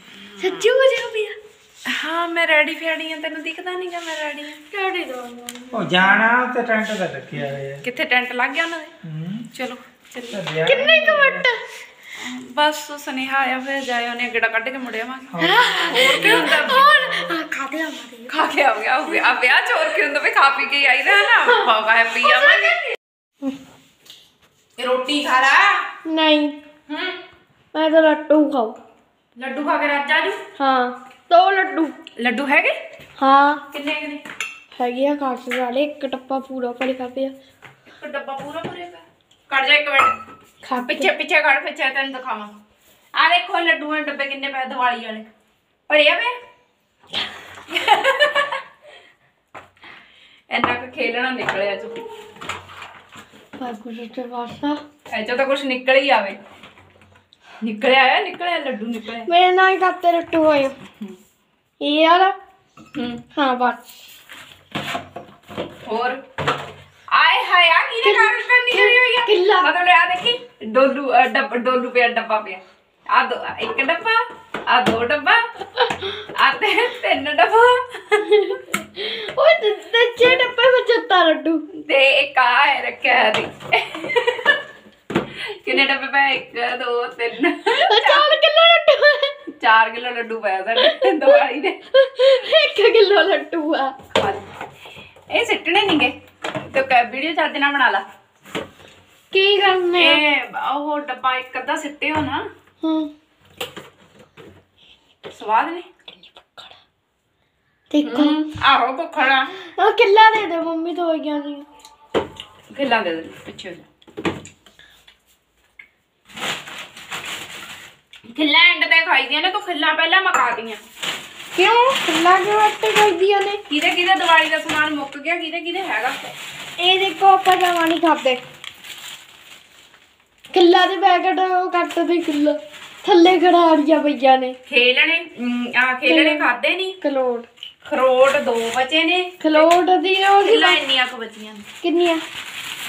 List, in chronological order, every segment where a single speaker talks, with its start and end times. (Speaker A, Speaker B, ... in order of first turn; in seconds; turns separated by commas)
Speaker A: 0.1-0.7, Speaker B: 0.4-1.4, Speaker A: 1.9-4.6, Speaker B: 4.7-6.2, Speaker C: 5.7-7.8, Speaker A: 7.8-8.9, Speaker C: 9.0-9.4, Speaker A: 9.5-10.4, Speaker C: 10.3-11.5, Speaker B: 10.6-11.6, Speaker A: 12.2-15.3, Speaker C: 15.3-16.6, Speaker B: 15.4-18.4, Speaker A: 15.8-17.3, Speaker A: 18.3-23.0, Speaker B: 21.2-21.6, Speaker B: 22.2-22.7, Speaker A: 24.8-25.8, Speaker B: 26.1-26.6, Speaker A: 26.9-27.2, Speaker B: 27.7-28.8, Speaker A: 29.4-30.4, Speaker B: 30.6-32.0, Speaker A: 32.2-32.7, Speaker B: 33.2-33.6, Speaker A: 33.7-34.2, Speaker B: 34.8-37.4, Speaker A: 37.9-40.1, Speaker B: 40.6-41.1, Speaker A: 40.9-42.5, Speaker A: 43.1-45.3, Speaker A: 45.9-46.4, Speaker A: 47.7-48.6, Speaker A: 50.5-52.0, Speaker B: 53.6-54.8, Speaker A: 55.1-56.4, Speaker A: 57.6-59.3, Speaker B: 59.3-60.8, Speaker B: 61.8-62.3, Speaker A: 62.9-63.2, Speaker B: 63.4-63.8, Speaker A: 65.8-66.2, Speaker A: 67.1-78.6, Speaker B: 68.0-69.7, Speaker B: 78.5-81.7, Speaker A: 81.8-84.6, Speaker A: 85.3-88.4, Speaker B: 87.7-89.3, Speaker A: 89.6-91.8, Speaker B: 90.8-91.4, Speaker B: 91.9-94.0, Speaker A: 94.1-94.4, Speaker A: 95.3-98.0, Speaker B: 99.3-100.2, Speaker A: 100.0-102.4, Speaker B: 102.8-103.1, Speaker A: 105.3-105.9, Speaker B: 106.1-106.8, Speaker B: 107.9-108.4, Speaker A: 108.0-109.5, Speaker B: 109.8-111.7, Speaker A: 112.7-113.9, Speaker A: 118.3-120.8, Speaker B: 121.5-123.6, Speaker A: 123.7-126.3, Speaker B: 126.8-128.4, Speaker B: 130.5-134.6, Speaker A: 134.7-137.0, Speaker B: 136.1-136.5, Speaker B: 137.0-137.5, Speaker A: 137.8-139.7, Speaker B: 139.4-140.8, Speaker A: 140.4-141.6, Speaker B: 141.8-142.2